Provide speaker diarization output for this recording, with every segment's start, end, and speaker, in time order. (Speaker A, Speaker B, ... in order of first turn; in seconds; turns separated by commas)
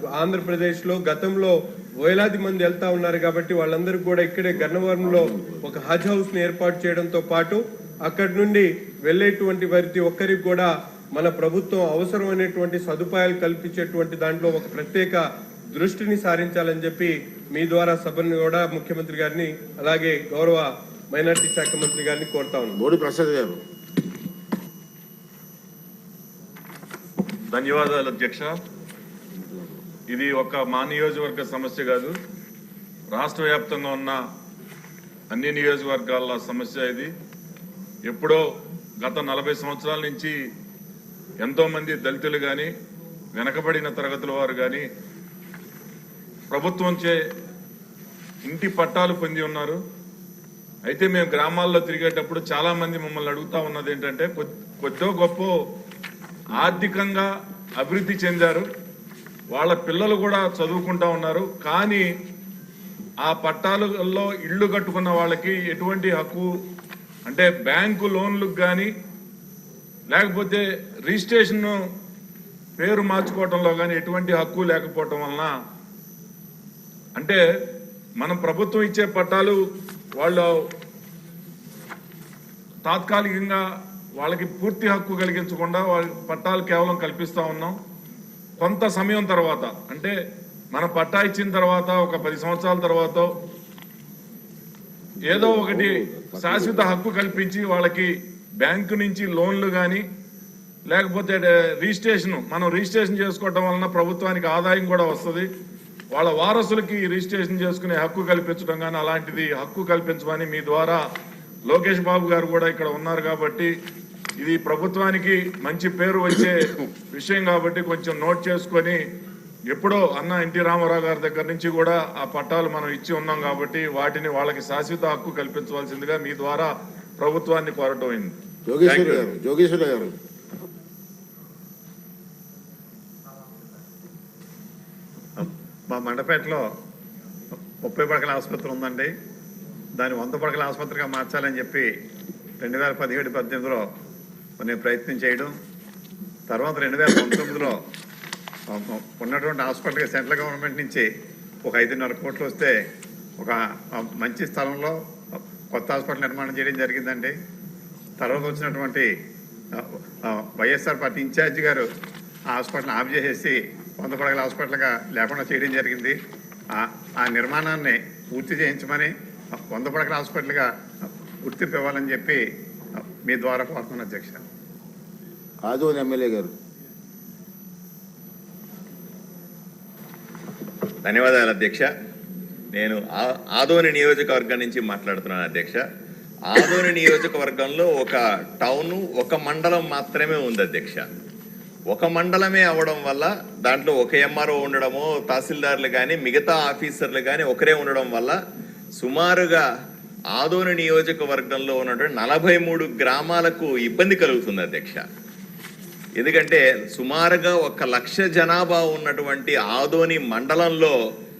Speaker A: 0.2-22.8, Speaker B: 5.0-5.6, Speaker B: 22.7-23.6, Speaker C: 27.5-28.5, Speaker B: 29.4-29.7, Speaker C: 30.1-32.1, Speaker C: 33.1-34.2, Speaker C: 35.3-37.1, Speaker C: 38.0-38.4, Speaker C: 39.0-40.3, Speaker C: 41.4-42.7, Speaker C: 43.4-44.8, Speaker C: 46.5-47.1, Speaker C: 48.5-49.8, Speaker C: 50.9-55.5, Speaker C: 56.6-57.3, Speaker C: 57.8-58.6, Speaker C: 59.5-62.0, Speaker C: 63.2-66.5, Speaker C: 67.3-68.9, Speaker C: 70.1-71.7, Speaker C: 72.8-75.5, Speaker C: 78.2-79.6, Speaker C: 80.2-80.5, Speaker C: 82.8-83.6, Speaker C: 84.2-87.7, Speaker C: 88.6-90.1, Speaker C: 90.7-93.3, Speaker B: 95.2-97.0, Speaker C: 95.2-98.1, Speaker C: 98.6-100.0, Speaker C: 100.9-105.5, Speaker C: 106.1-111.0, Speaker C: 111.7-113.7, Speaker C: 114.4-119.0, Speaker C: 119.7-128.3, Speaker B: 128.7-130.1, Speaker D: 128.8-129.1, Speaker E: 135.4-136.6, Speaker E: 137.8-139.1, Speaker E: 140.0-141.9, Speaker E: 142.6-143.9, Speaker E: 144.6-145.5, Speaker E: 146.5-147.8, Speaker E: 148.7-151.1, Speaker E: 151.6-152.7, Speaker E: 153.4-154.9, Speaker E: 155.7-157.3, Speaker E: 158.2-159.1, Speaker E: 159.8-161.8, Speaker E: 162.5-166.1, Speaker E: 166.7-170.7, Speaker E: 171.4-172.4, Speaker E: 173.0-174.4, Speaker B: 175.6-176.5, Speaker D: 181.1-181.9, Speaker D: 182.7-185.8, Speaker D: 186.5-191.0, Speaker D: 191.9-198.4, Speaker D: 199.0-199.6, Speaker D: 200.3-205.0, Speaker D: 206.2-210.9